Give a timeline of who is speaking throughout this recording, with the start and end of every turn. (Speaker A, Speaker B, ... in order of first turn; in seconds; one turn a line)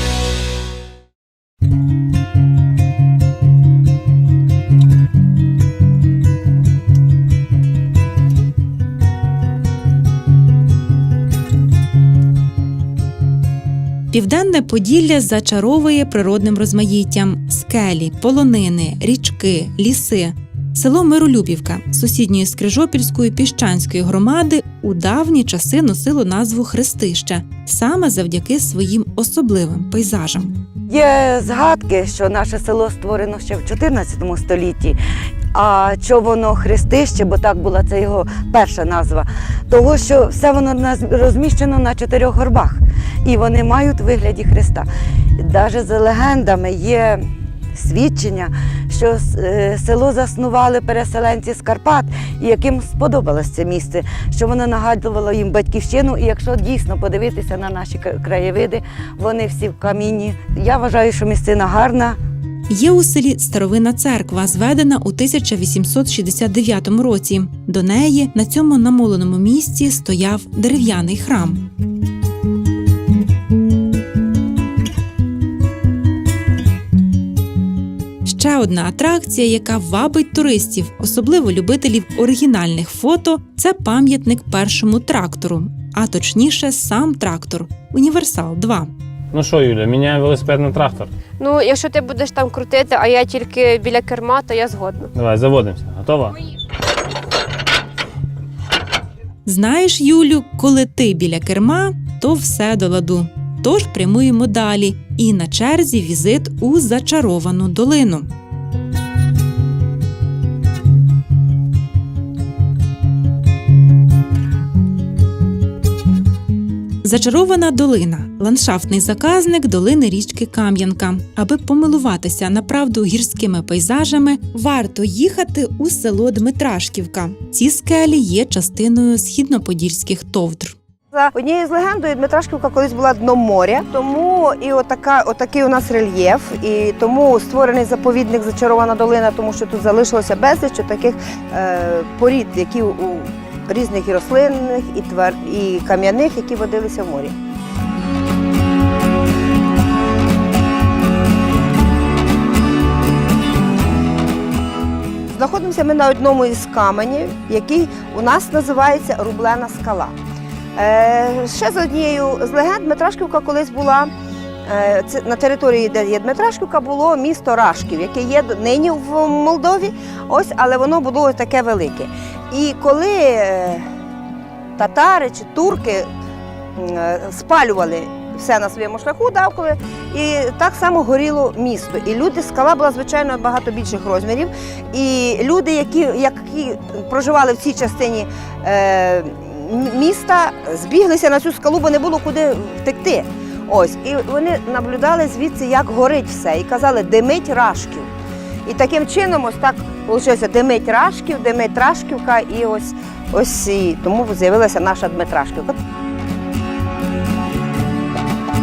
Speaker A: 14.1-30.6
Speaker B: 30.9-35.0
Speaker B: 35.5-62.2
Speaker A: 62.7-71.6
Speaker A: 78.2-88.9
Speaker C: 89.3-91.1
Speaker D: 91.4-95.1
Speaker C: 95.1-96.4
Speaker A: 99.5-108.3
Speaker A: 117.0-130.8
Speaker E: 131.1-147.4
Speaker E: 155.3-160.2
Speaker E: 160.8-164.1
Speaker E: 164.7-173.9
Speaker E: 174.8-176.1
Speaker E: 176.8-198.1
Speaker E: 198.7-205.8